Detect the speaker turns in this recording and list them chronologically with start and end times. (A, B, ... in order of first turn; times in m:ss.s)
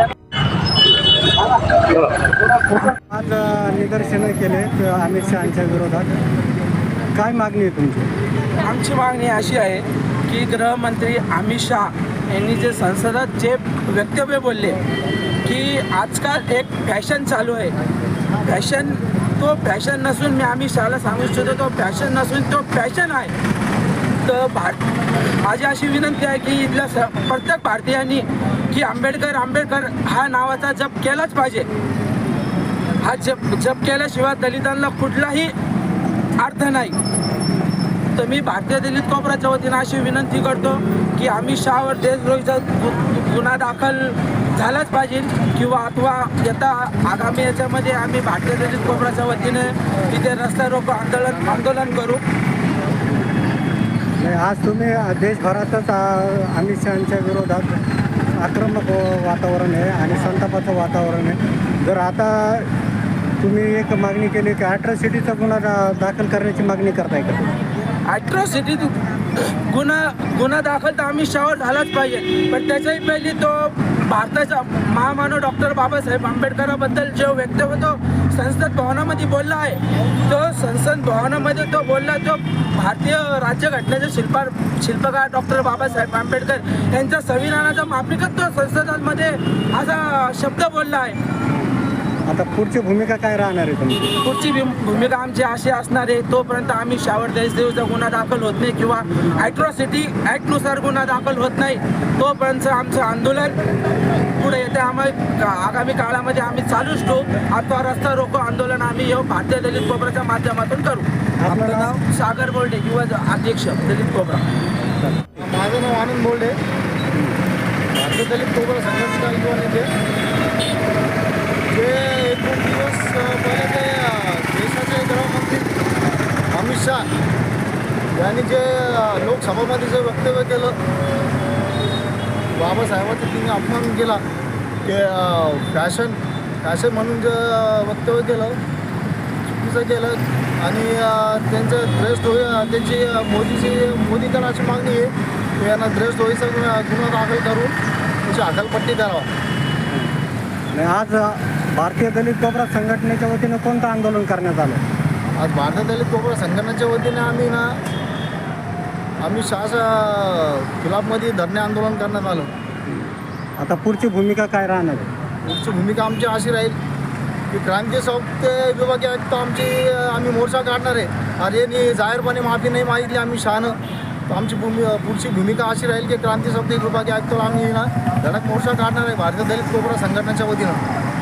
0:02.7-0:06.2 A
0:07.1-0:08.1 A
0:08.6-0:14.8 B
0:15.4-0:17.8 B
0:18.4-0:23.3 B
0:24.2-0:31.7 B
0:33.0-0:35.5 B
0:36.4-0:37.0 B
0:38.1-0:52.2 B
0:54.2-0:57.8 A
0:58.4-1:02.7 A
1:03.4-1:07.5 A
1:08.0-1:31.2 B
1:32.3-1:34.1 A
1:34.1-1:43.6 B
1:39.0-1:39.6 A
1:44.3-1:54.5 B
1:51.4-1:51.9 A
1:55.0-1:55.4 A
1:55.4-1:56.6 C
1:57.1-1:57.4 A
1:57.9-1:59.9 C
2:01.7-2:05.7 C
2:06.5-2:07.1 C
2:08.1-2:10.8 C
2:12.6-2:14.2 C
2:14.8-2:18.6 C
2:19.5-2:27.7 C
2:28.3-2:29.3 C
2:30.7-2:34.8 A
2:35.4-2:37.7 C
2:39.2-2:42.5 C
2:42.9-2:45.1 A
2:45.4-2:46.8 C
2:47.5-2:53.8 C
2:54.3-3:00.8 C